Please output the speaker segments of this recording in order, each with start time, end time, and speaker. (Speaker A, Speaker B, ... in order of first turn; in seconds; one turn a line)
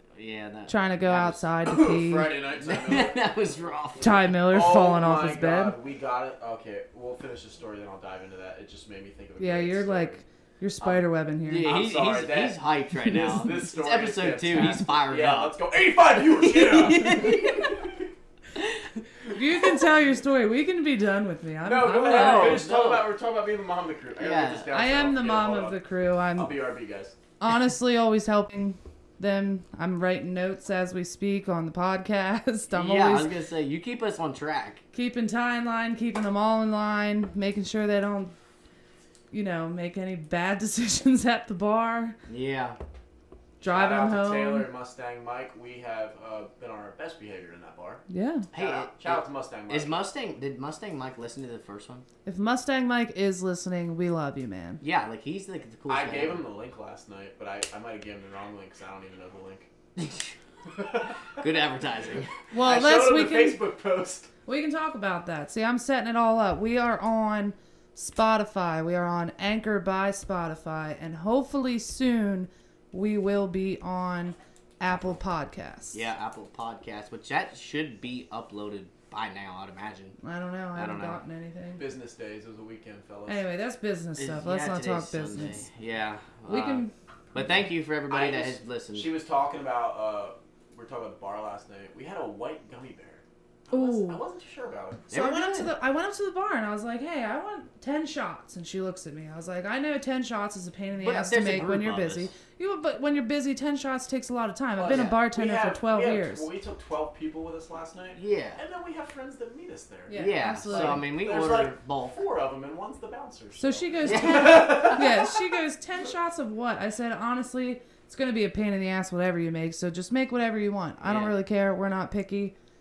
Speaker A: 0.1-1.5
Speaker B: 0.7-2.3
Speaker C: 1.6-3.2
Speaker A: 2.6-4.2
Speaker B: 4.0-5.8
Speaker C: 4.1-10.2
Speaker B: 9.4-11.7
Speaker A: 10.8-15.6
Speaker C: 11.6-18.1
Speaker B: 13.1-13.5
Speaker A: 16.4-17.9
Speaker B: 19.3-22.6
Speaker C: 21.6-25.8
Speaker A: 22.1-23.1
Speaker A: 24.2-24.7
Speaker B: 24.7-26.5
Speaker C: 26.4-27.1
Speaker B: 27.4-33.3
Speaker A: 32.7-34.8
Speaker B: 34.9-38.3
Speaker B: 39.3-42.1
Speaker A: 42.3-42.8
Speaker B: 43.6-44.7
Speaker C: 43.6-49.9
Speaker B: 48.1-48.5
Speaker A: 48.5-52.0
Speaker B: 52.2-54.8
Speaker A: 54.8-56.4
Speaker C: 55.9-59.7
Speaker A: 60.0-60.3
Speaker C: 60.7-61.4
Speaker A: 61.4-62.3
Speaker B: 62.5-63.6
Speaker C: 62.5-64.3
Speaker B: 64.5-76.0
Speaker A: 75.9-80.2
Speaker B: 80.2-81.8
Speaker A: 80.7-81.2
Speaker C: 81.8-83.4
Speaker B: 83.3-85.6
Speaker A: 84.2-89.1
Speaker B: 86.5-86.9
Speaker C: 88.1-95.1
Speaker B: 93.7-94.2
Speaker A: 95.1-95.7
Speaker B: 95.1-106.5
Speaker A: 101.0-102.3
Speaker C: 104.8-115.3
Speaker A: 104.9-105.2
Speaker A: 108.2-108.6
Speaker B: 110.1-111.0
Speaker A: 110.1-112.2
Speaker B: 113.6-122.5
Speaker A: 114.0-115.0
Speaker A: 121.0-121.3